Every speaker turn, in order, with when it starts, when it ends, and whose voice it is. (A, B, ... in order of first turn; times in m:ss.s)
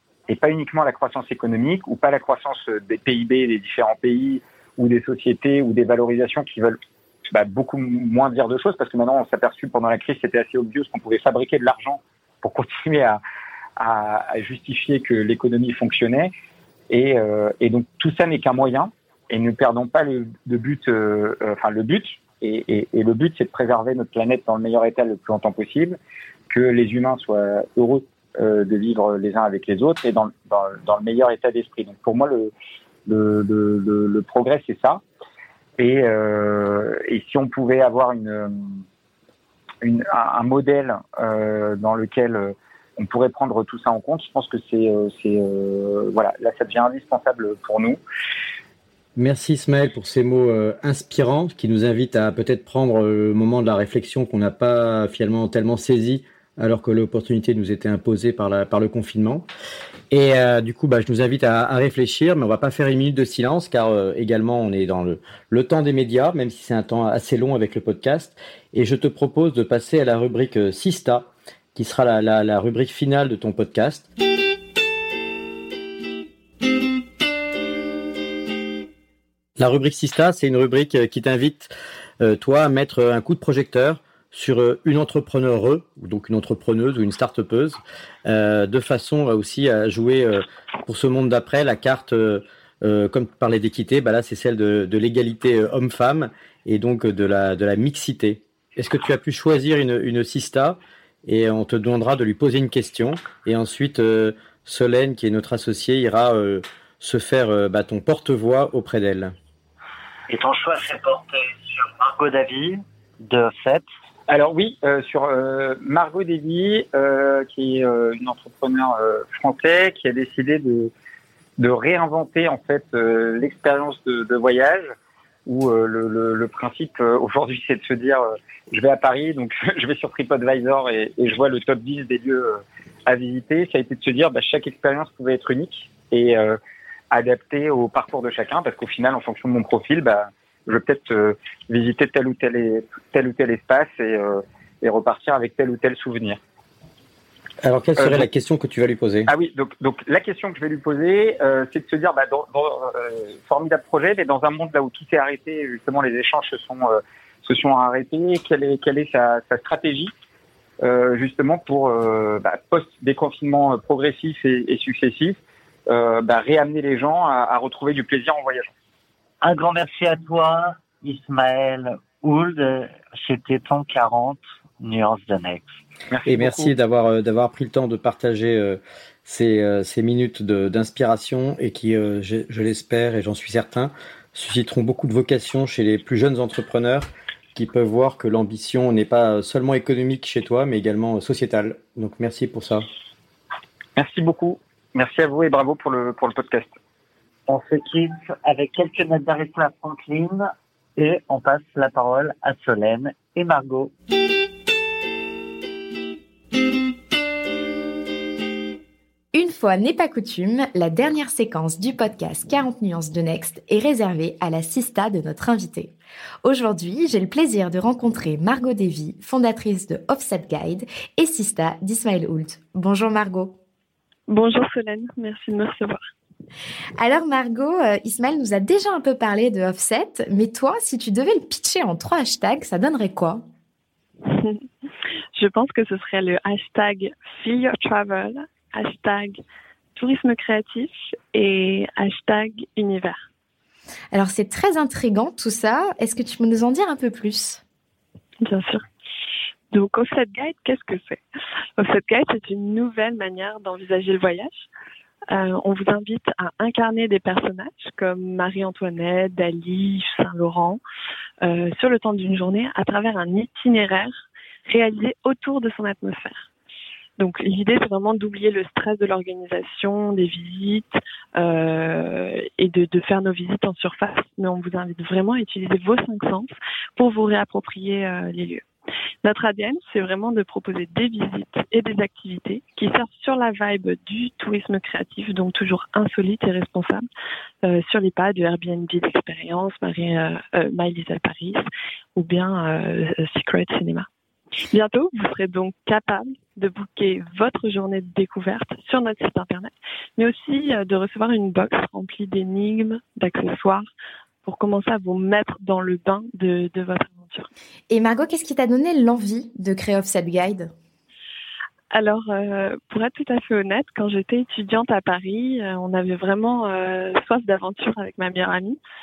0:00.3-0:06.8 A
0:07.3-0:13.2 A
0:13.8-0:16.3 A
0:16.9-0:26.0 A
0:26.5-0:32.5 A
0:33.0-0:35.0 A
0:35.8-0:38.8 A
0:39.8-0:48.0 A
0:49.2-0:59.5 B
1:00.1-1:14.1 B
1:19.6-1:49.3 B
1:50.3-1:53.8 C
1:54.3-2:00.9 A
2:01.6-2:04.9 A
2:05.4-2:16.6 A
2:17.1-2:26.4 A
2:27.6-2:29.3 B
2:28.0-2:28.3 A
2:29.3-2:40.1 A
2:40.8-2:48.7 A
2:49.4-2:55.7 C
2:56.1-2:56.7 A
2:56.2-3:12.9 B
3:14.0-3:16.7 A
3:17.5-3:23.9 C
3:29.3-3:43.6 D
3:44.3-3:46.0 E
3:47.0-3:53.4 D
3:54.3-3:54.6 E
3:55.3-3:59.4 E
4:00.0-4:03.2 E
4:04.1-4:07.6 D
4:08.4-4:08.8 E
4:09.7-4:11.2 E
4:11.8-4:14.7 E
4:15.3-4:20.8 E
4:21.4-4:26.5 E
4:27.2-4:38.6 E
4:39.2-4:47.0 E
4:47.6-4:51.6 E
4:52.2-4:54.1 E
4:54.7-5:03.9 E
5:04.4-5:07.5 E
5:07.9-5:10.7 D
5:11.9-5:18.8 E